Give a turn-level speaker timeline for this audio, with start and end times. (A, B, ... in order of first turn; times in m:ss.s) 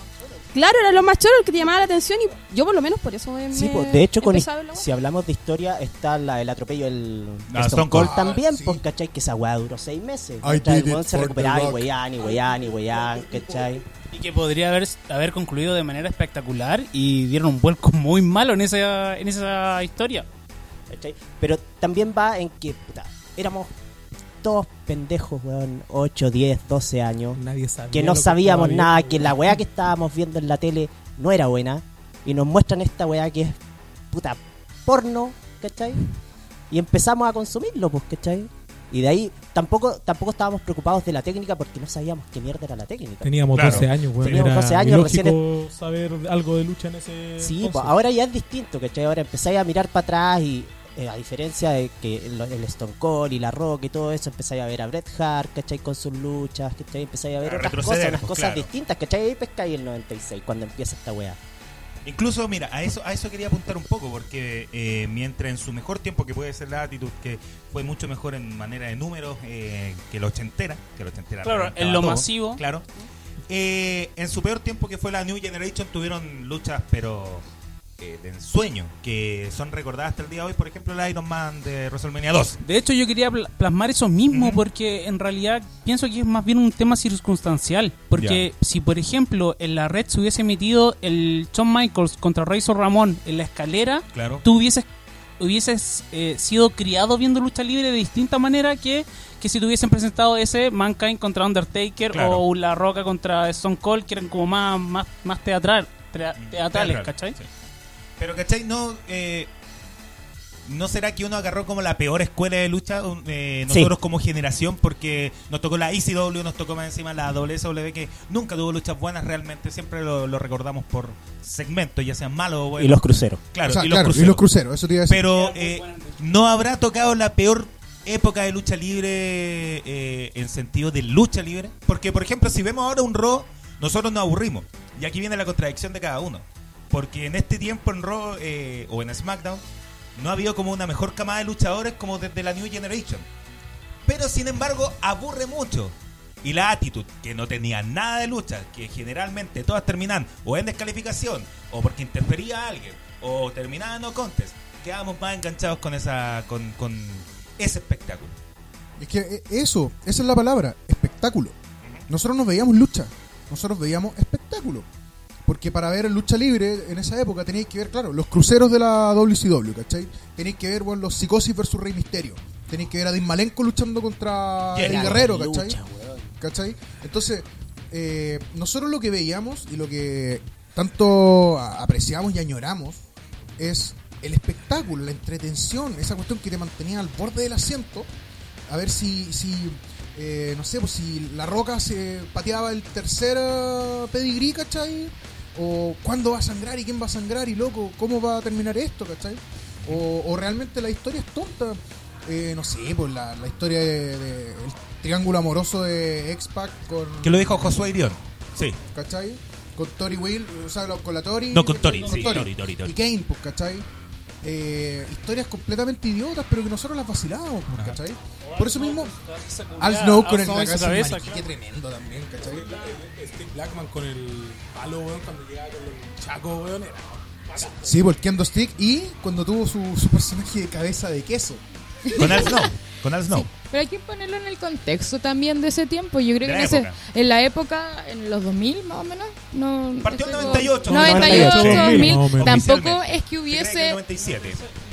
0:00.5-0:04.9 A
0:03.5-0:13.8 B
0:07.5-0:08.2 C
0:07.9-0:08.8 D
0:10.4-0:11.9 D
0:14.1-0:20.3 E
0:20.9-0:23.7 B
0:24.4-0:27.4 B
0:27.4-0:29.6 F
0:27.9-0:33.6 B
0:34.1-0:36.0 B
0:36.7-0:45.4 B
0:43.2-0:47.9 F
0:43.5-0:44.5 C
0:47.4-1:01.4 B
0:57.4-0:58.7 C
1:02.1-1:12.8 C
1:11.4-1:12.6 E
1:13.5-1:17.4 C
1:18.0-1:22.6 C
1:22.6-1:34.9 E
1:24.3-1:24.6 C
1:28.2-1:28.5 C
1:34.1-1:34.4 C
1:35.4-1:47.4 E
1:42.1-1:42.4 C
1:46.4-1:47.5 C
1:48.2-1:49.5 C
1:50.7-2:04.4 C
2:02.8-2:03.4 B
2:03.7-2:05.2 D
2:05.0-2:19.6 C
2:05.3-2:06.2 E
2:20.2-2:23.3 C
2:24.1-2:38.4 C
2:39.0-2:41.6 D
2:42.1-2:44.9 D
2:45.5-2:55.8 D
2:54.7-2:55.2 C
2:54.8-2:56.3 B
2:56.4-3:03.0 D
3:03.6-3:08.1 D
3:08.7-3:27.9 D
3:27.2-3:28.8 C
3:28.9-3:33.8 D
3:31.5-3:33.0 C
3:34.4-3:39.1 D
3:37.7-3:38.0 C
3:38.5-3:41.4 E
3:39.8-3:42.7 D
3:42.5-3:48.0 F
3:47.7-3:51.6 D
3:52.1-3:52.7 G
3:52.2-3:53.5 C
3:53.3-4:04.0 G
3:56.4-3:57.0 C
4:00.0-4:04.6 C
4:00.9-4:02.7 F
4:04.3-4:04.7 E